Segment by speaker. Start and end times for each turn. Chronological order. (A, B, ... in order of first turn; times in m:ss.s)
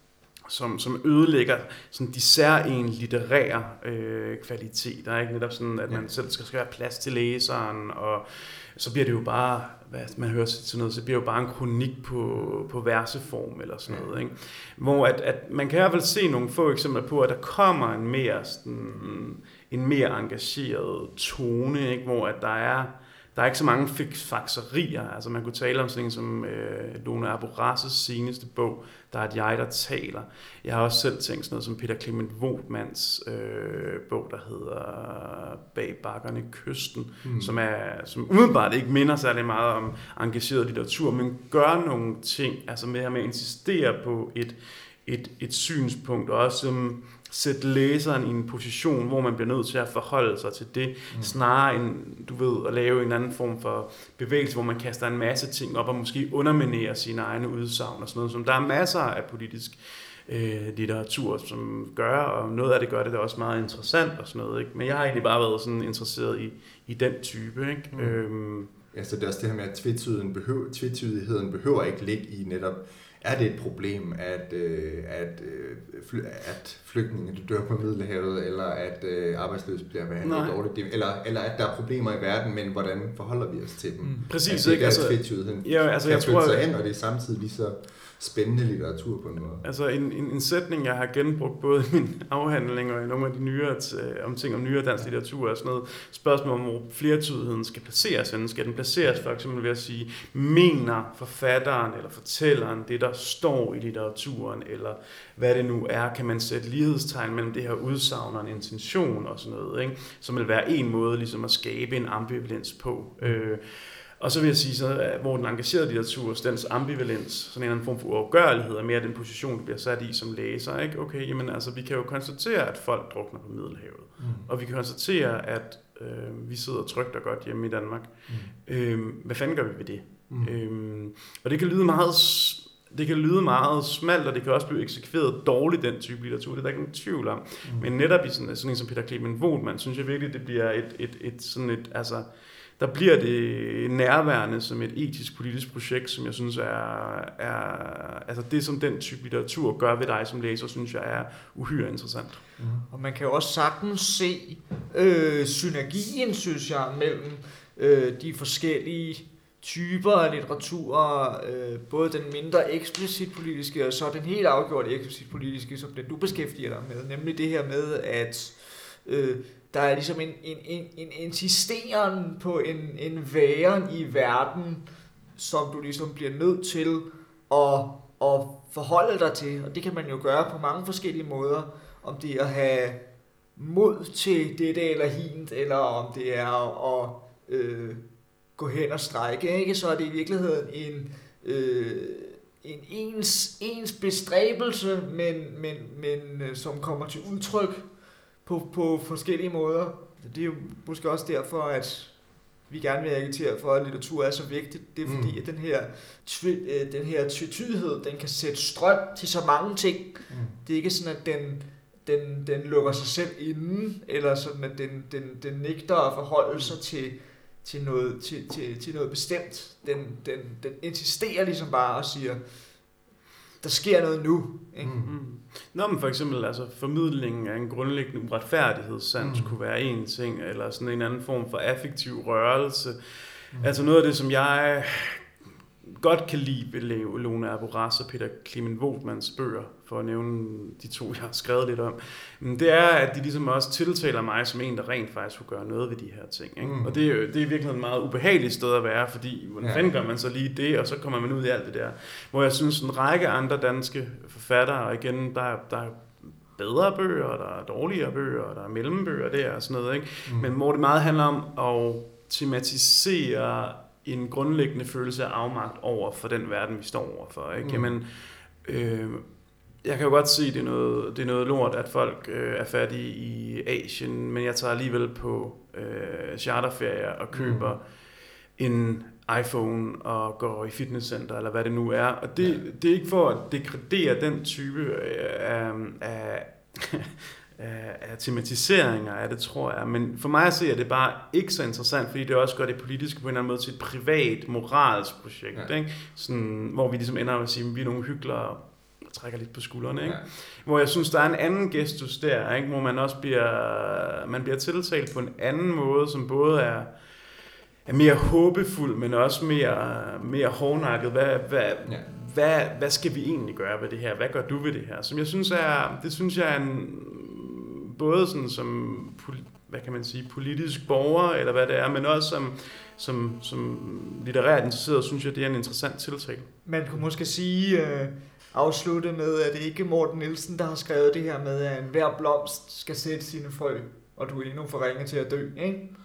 0:00.5-1:08.7 A
0:37.2-0:37.5 B
0:51.1-0:51.4 B
1:07.9-1:08.2 B
1:08.9-1:29.6 B
1:20.2-1:20.6 A
1:24.0-1:24.2 C
1:24.3-1:26.6 A
1:29.6-2:08.1 A
2:04.2-2:04.5 B
2:08.6-2:22.2 A
2:10.3-2:10.6 B
2:17.6-2:17.9 B
2:22.8-2:32.4 A
2:32.6-2:32.8 B
2:32.9-2:54.8 C
2:55.4-3:03.0 C
3:03.6-3:08.0 C
3:08.6-3:17.9 C
3:18.4-3:22.2 C
3:22.7-3:42.4 C
3:25.0-3:25.4 B
3:30.3-3:30.6 B
3:43.6-3:44.9 C
3:44.8-3:45.1 B
3:45.0-3:53.0 A
3:49.2-3:49.5 B
3:53.6-3:55.2 A
3:55.8-4:28.0 A
4:06.6-4:07.0 B
4:09.6-4:09.8 B
4:20.2-4:20.5 B
4:27.6-4:27.9 B
4:28.6-4:29.2 A
4:29.8-4:37.8 A
4:37.3-4:37.7 B
4:38.6-5:06.9 A
4:42.4-4:42.6 B
5:07.8-5:26.5 A
5:26.6-5:35.9 C